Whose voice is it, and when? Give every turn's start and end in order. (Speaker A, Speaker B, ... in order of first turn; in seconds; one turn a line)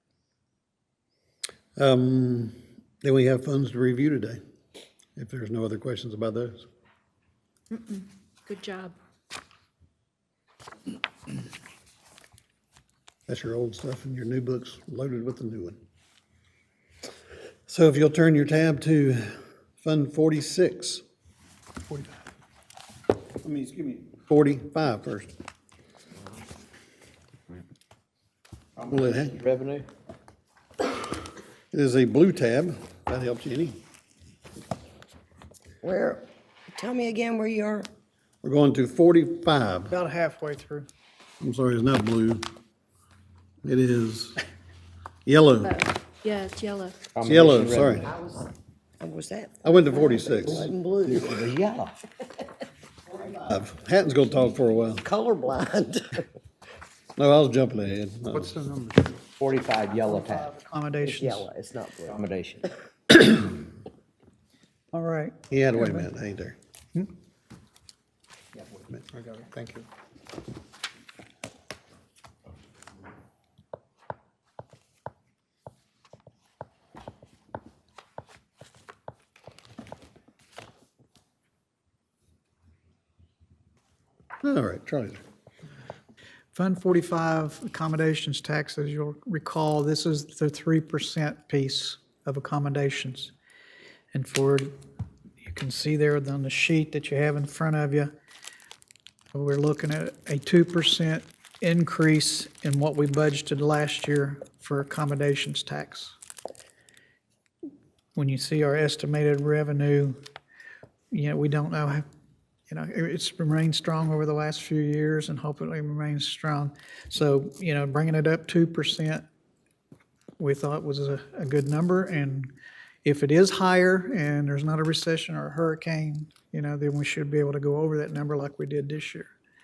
Speaker A: 1.8-4.4
Speaker A: 5.2-6.6
Speaker B: 7.7-8.9
Speaker A: 13.3-15.8
Speaker A: 17.7-21.0
Speaker A: 23.4-25.3
Speaker C: 28.8-29.9
Speaker A: 28.9-29.4
Speaker A: 31.7-33.8
Speaker D: 35.8-37.9
Speaker A: 38.4-39.9
Speaker E: 39.9-40.9
Speaker A: 41.4-42.5
Speaker A: 43.6-44.4
Speaker A: 45.2-45.8
Speaker B: 45.6-47.0
Speaker C: 47.1-48.1
Speaker A: 47.2-48.1
Speaker D: 48.0-51.3
Speaker A: 49.6-50.7
Speaker C: 50.5-52.0
Speaker A: 53.4-55.0
Speaker D: 54.9-56.2
Speaker A: 57.2-58.9
Speaker C: 59.4-60.5
Speaker E: 60.0-61.5
Speaker D: 61.0-62.2
Speaker C: 62.0-62.7
Speaker E: 64.9-66.1
Speaker A: 65.5-66.5
Speaker A: 68.9-69.8
Speaker A: 84.4-85.2
Speaker E: 86.5-93.3
Speaker E: 94.1-94.7
Speaker E: 95.4-98.1
Speaker E: 99.3-106.1
Speaker E: 108.1-110.2
Speaker E: 111.1-112.0
Speaker E: 112.7-119.2
Speaker E: 120.4-122.5
Speaker E: 123.0-129.3